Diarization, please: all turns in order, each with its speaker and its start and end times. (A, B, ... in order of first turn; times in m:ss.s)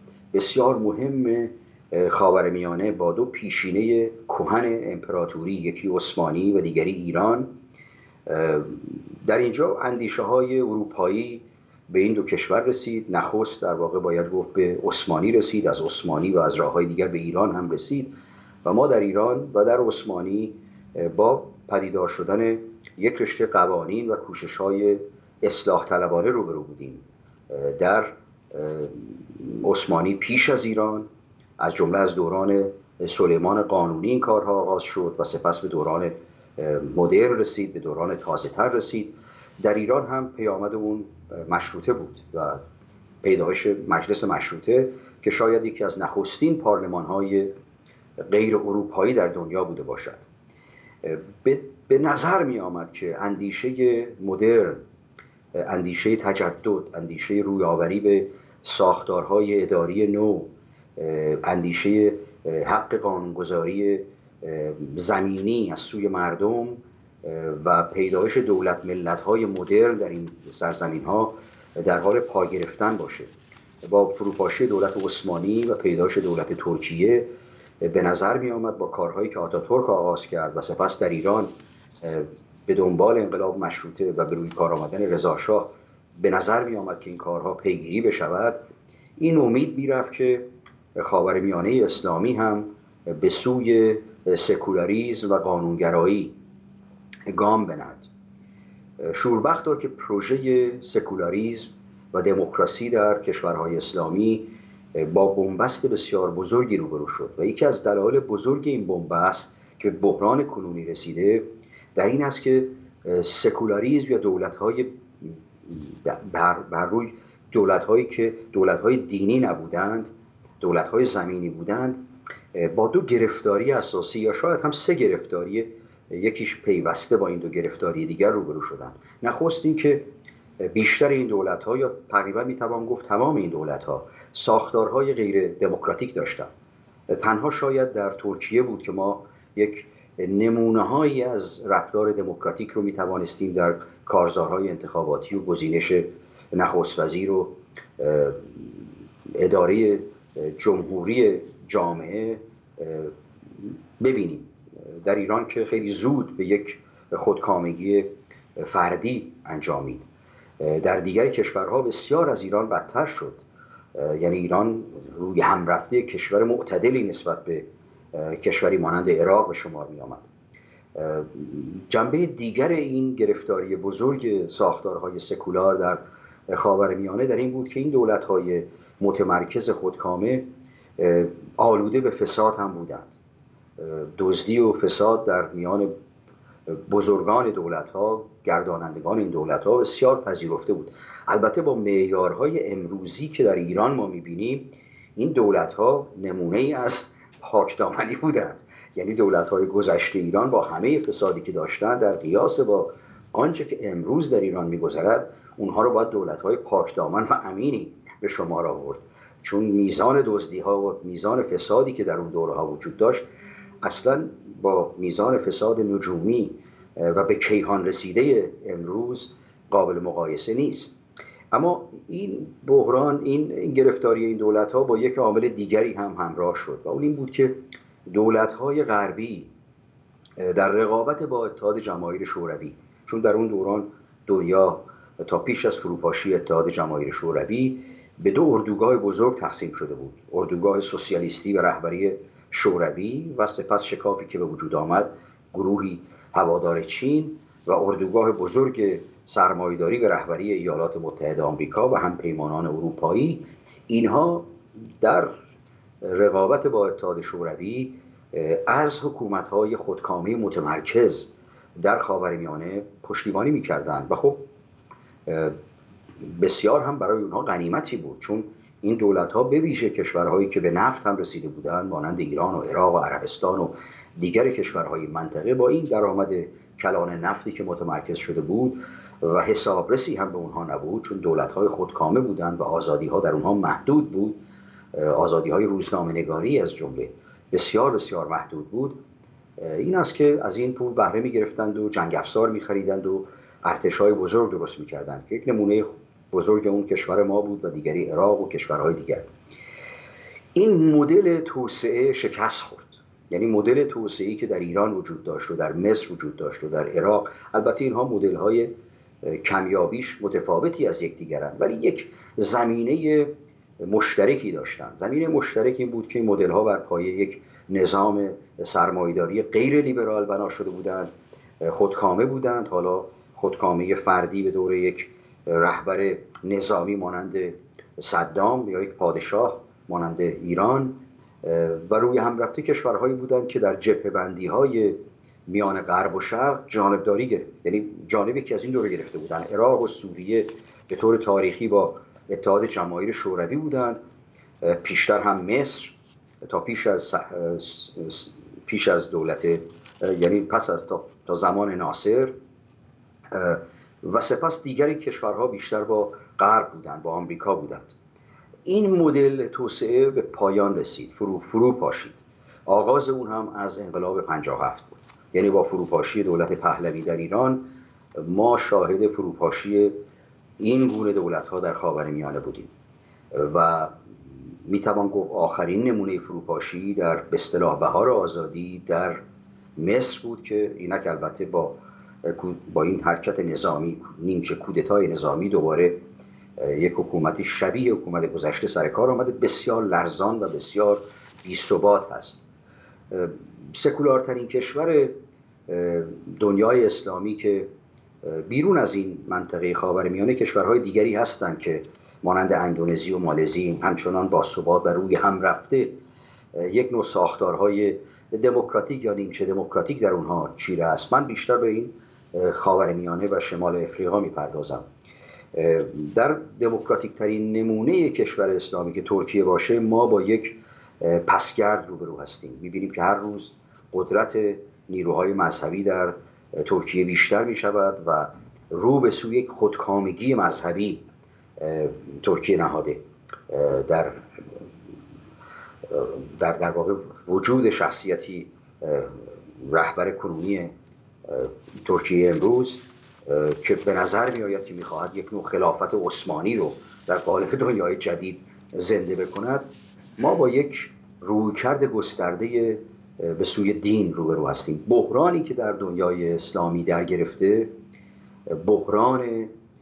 0:00.3-0:07.5 A
0:08.3-0:18.1 A
0:18.6-0:31.1 A
0:31.6-0:42.6 A
0:43.2-0:47.5 A
0:48.2-0:50.2 A
0:51.0-0:54.8 A
0:55.6-1:13.3 A
1:13.8-1:17.3 A
1:17.8-1:21.5 A
1:22.0-1:28.6 A
1:29.2-1:30.4 A
1:31.0-1:36.3 A
1:37.3-1:38.1 A
1:39.0-1:51.4 A
1:51.9-2:02.0 A
2:02.5-2:10.0 A
2:10.6-2:16.5 A
2:17.1-2:40.0 A
2:40.6-2:43.4 A
2:43.9-2:50.3 A
2:50.9-3:00.4 A
3:01.0-3:03.1 A
3:03.8-3:05.9 A
3:06.7-3:14.6 A
3:15.2-3:33.2 A
3:33.8-3:41.0 A
3:41.5-3:47.5 A
3:48.1-3:49.5 A
3:50.4-4:15.3 A
4:16.0-4:24.4 A
4:25.2-4:25.6 A
4:26.2-4:44.4 A
4:44.9-4:49.0 A
4:49.6-4:59.3 A
5:00.5-5:08.7 A
5:09.2-5:44.0 A
5:44.6-5:52.3 A
5:53.3-5:57.9 A
5:58.7-6:07.6 A
6:08.2-6:09.9 A
6:10.6-6:12.7 A
6:13.3-6:13.9 A
6:14.6-6:19.2 A
6:19.8-6:26.0 A
6:26.6-6:32.4 A
6:33.1-6:35.1 A
6:35.7-6:37.7 A
6:38.2-6:45.9 A
6:46.5-6:54.8 A
6:55.5-7:11.0 A
7:11.6-7:14.6 A
7:15.9-7:20.7 A
7:21.3-7:29.7 A
7:30.2-7:37.7 A
7:38.5-7:39.5 A